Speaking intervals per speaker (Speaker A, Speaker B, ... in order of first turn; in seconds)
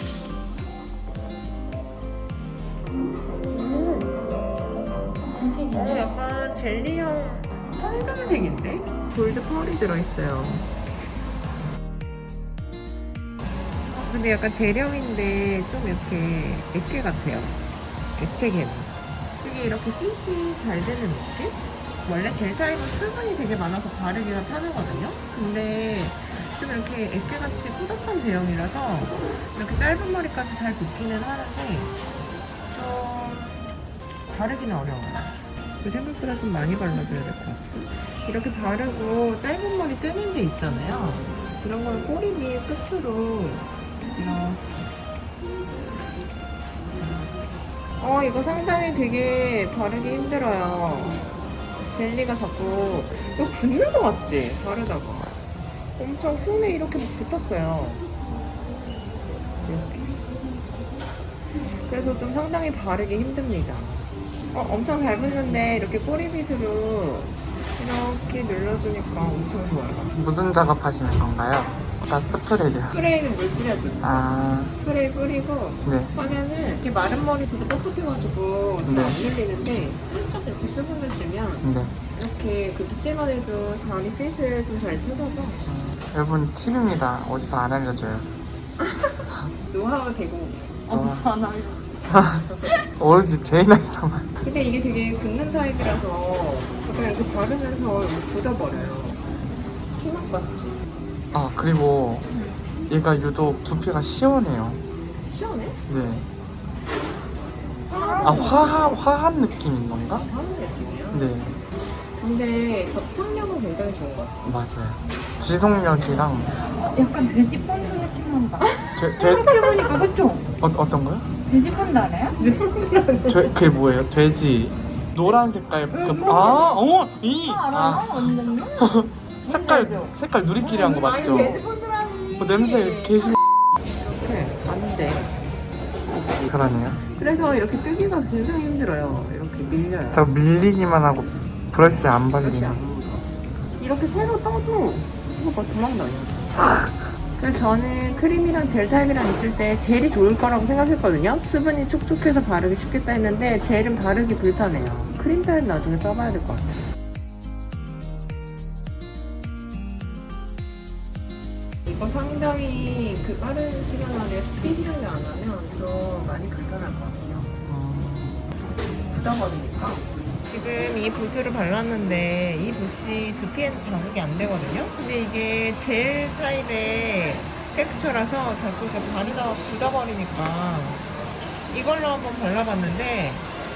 Speaker A: 3.4-4.1, 5.7-10.7, 13.9-17.6, 18.1-32.0, 32.7-33.7, 34.3-44.6, 48.0-51.2, 51.9-55.4, 56.0-58.0, 59.6-60.2, 61.5-70.2, 72.9-85.6, 88.8-90.7, 94.4-99.2, 100.0-100.8, 105.2-105.8, 107.9-109.0, 110.2-111.3, 112.2-114.4, 118.6-119.0, 122.3-123.7, 130.6-133.4, 134.0-135.4, 137.1-140.3, 142.4-143.3, 143.8-146.6, 147.4-156.8, 161.9-167.6, 169.1-181.1, 181.7-183.5
Speaker B: 5.3-6.1, 90.9-91.9, 102.3-102.6, 108.0-108.6, 116.8-120.5, 121.5-122.4, 125.9-126.8, 127.4-130.2
Speaker C: 70.1-73.0, 74.0-74.8, 75.8-76.1, 78.8-79.2, 81.6-82.0, 85.7-88.3, 90.9-91.3, 92.1-94.3, 101.3-102.3, 102.9-104.8, 105.9-106.3, 108.2-110.3, 111.1-111.6, 114.4-116.5, 119.0-119.6, 120.6-121.3, 123.3-131.6, 132.4-133.4, 136.4-137.0, 140.1-142.8, 167.7-168.5